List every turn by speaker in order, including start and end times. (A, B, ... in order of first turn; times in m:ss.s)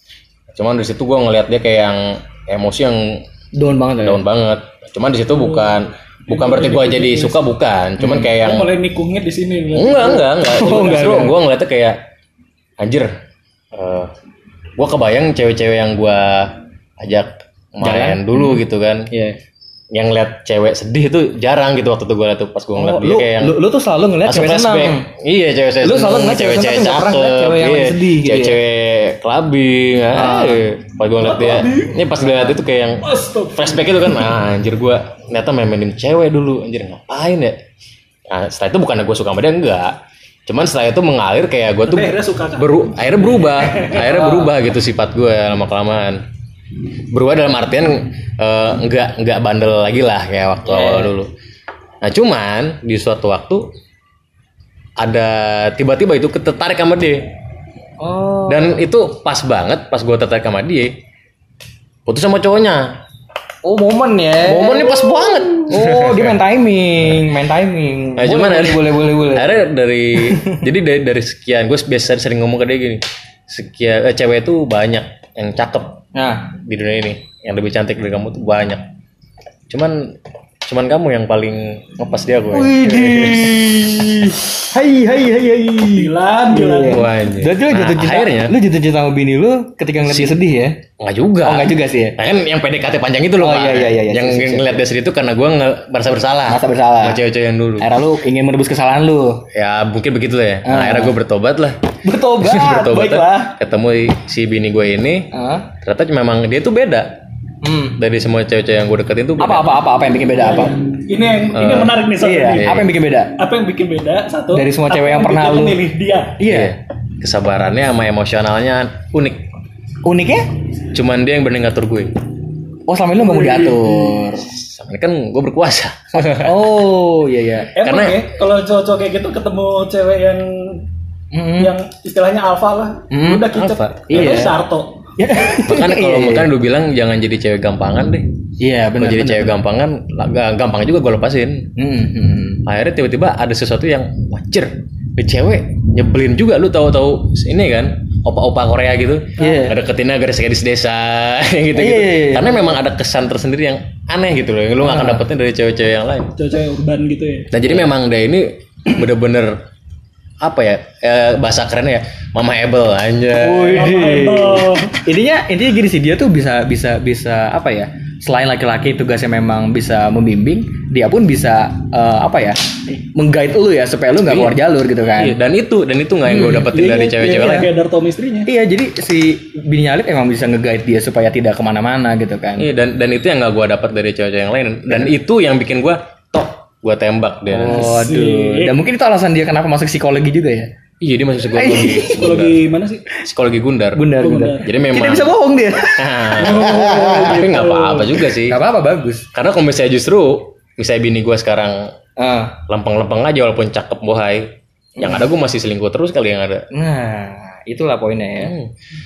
0:00.5-0:03.2 A
0:03.5-0:04.2 B
0:04.0-0:08.8 A
0:06.3-0:07.4 C
0:08.0-0:08.3 B
0:08.4-0:10.4 C
0:09.7-0:12.0 A
0:10.4-0:11.4 B
0:12.8-0:13.1 A
0:13.7-0:14.1 A
0:14.8-0:19.1 A
0:17.8-0:18.6 B
0:19.1-0:19.4 B
0:19.9-0:23.6 A
0:22.8-0:25.0 B
0:24.2-0:37.6 A
0:25.8-0:28.6 B
0:30.1-0:30.6 B
0:31.2-0:32.0 C
0:32.2-0:32.5 B
0:33.0-0:33.9 C
0:38.3-0:39.9 A
0:40.5-0:46.2 A
0:41.8-0:42.8 C
0:43.4-0:44.4 C
0:47.1-0:51.3 A
0:50.7-0:51.1 B
0:52.0-0:53.7 A
0:55.0-0:57.3 A
0:58.0-0:58.8 B
0:58.5-1:00.9 A
1:02.0-1:03.0 A
1:03.6-1:09.6 B
1:04.4-1:06.4 A
1:08.2-1:16.0 A
1:10.2-1:10.6 B
1:16.1-1:16.5 B
1:16.6-1:18.8 A
1:19.7-1:23.6 A
1:22.5-1:30.8 B
1:25.9-1:27.0 C
1:26.9-1:28.6 A
1:30.0-1:30.4 A
1:31.0-1:37.9 A
1:31.4-1:32.2 B
1:33.4-1:34.8 B
1:36.5-1:37.2 B
1:37.8-1:39.4 B
1:39.5-1:47.1 A
1:40.6-1:41.2 B
1:42.0-1:43.6 B
1:45.3-1:45.7 B
1:47.6-1:48.0 B
1:48.0-1:49.8 A
1:49.4-1:50.8 B
1:50.4-1:52.7 C
1:51.5-1:52.0 A
1:52.2-1:53.3 B
1:52.6-1:52.9 A
1:53.4-1:56.4 C
1:54.5-1:55.8 B
1:56.4-1:56.7 B
1:56.4-1:59.4 A
2:00.0-2:00.5 B
2:00.9-2:02.1 A
2:02.9-2:04.5 B
2:03.2-2:04.2 C
2:04.4-2:06.7 A
2:06.3-2:07.7 B
2:07.7-2:10.8 C
2:07.8-2:08.3 A
2:11.3-2:11.7 B
2:11.6-2:15.0 C
2:13.1-2:13.5 B
2:13.5-2:14.5 A
2:14.1-2:14.6 B
2:15.2-2:16.5 B
2:15.6-2:18.3 A
2:18.6-2:19.6 B
2:19.0-2:21.7 A
2:21.8-2:22.6 B
2:22.6-2:36.3 A
2:29.4-2:29.8 B
2:31.7-2:32.7 B
2:34.8-2:35.2 B
2:36.4-2:37.5 C
2:37.5-2:39.6 A
2:40.4-2:43.9 A
2:43.4-2:55.4 B
2:43.7-2:45.0 C
2:54.2-2:54.6 A
2:55.1-2:57.7 A
2:56.2-2:56.8 B
2:56.7-2:58.5 C
2:57.3-2:57.7 B
2:58.4-3:02.7 B
3:02.6-3:07.9 A
3:07.5-3:10.7 B
3:07.7-3:08.7 C
3:11.0-3:12.6 A
3:11.5-3:12.4 B
3:11.9-3:13.0 C
3:13.2-3:14.0 A
3:13.9-3:17.4 B
3:14.2-3:14.7 C
3:14.6-3:15.4 A
3:15.9-3:18.6 A
3:16.3-3:18.1 C
3:18.4-3:19.2 B
3:19.3-3:21.9 A
3:22.2-3:22.6 B
3:22.7-3:26.6 A
3:25.0-3:25.2 B
3:26.7-3:28.5 B
3:28.4-3:28.7 A